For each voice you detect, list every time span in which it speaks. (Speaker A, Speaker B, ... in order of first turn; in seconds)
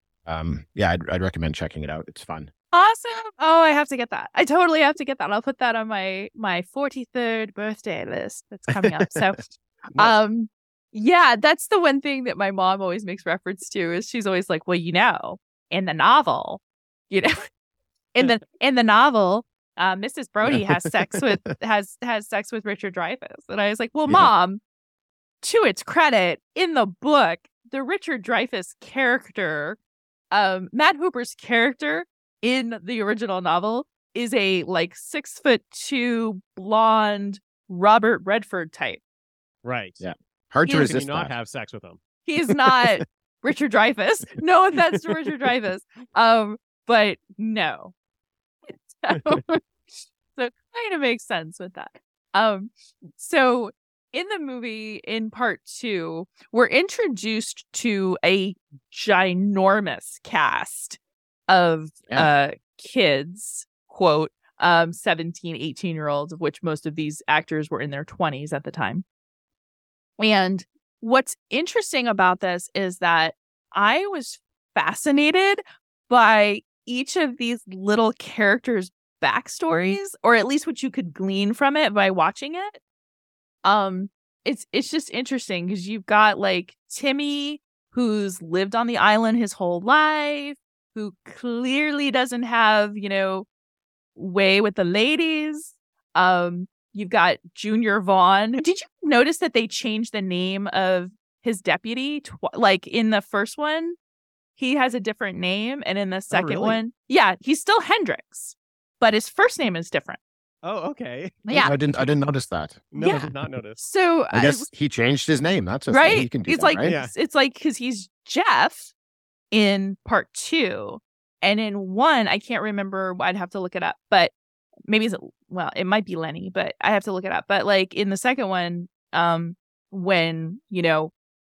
Speaker A: 0.2-2.5, 8.7-9.4, 40.0-41.3, 111.6-113.2, 114.3-116.9
Speaker B: 2.7-17.5, 18.1-24.6, 25.4-29.8, 30.3-39.0, 40.6-41.0, 42.2-47.9, 48.6-49.6, 50.3-69.0, 70.2-82.8, 83.6-93.5, 94.2-104.0, 104.5-110.2, 111.5-111.7, 113.0-114.7, 115.9-118.9, 119.5-124.3, 124.9-131.1
Speaker C: 39.6-40.0, 40.6-42.0, 106.3-106.8, 110.6-112.1, 112.9-113.8, 116.8-117.1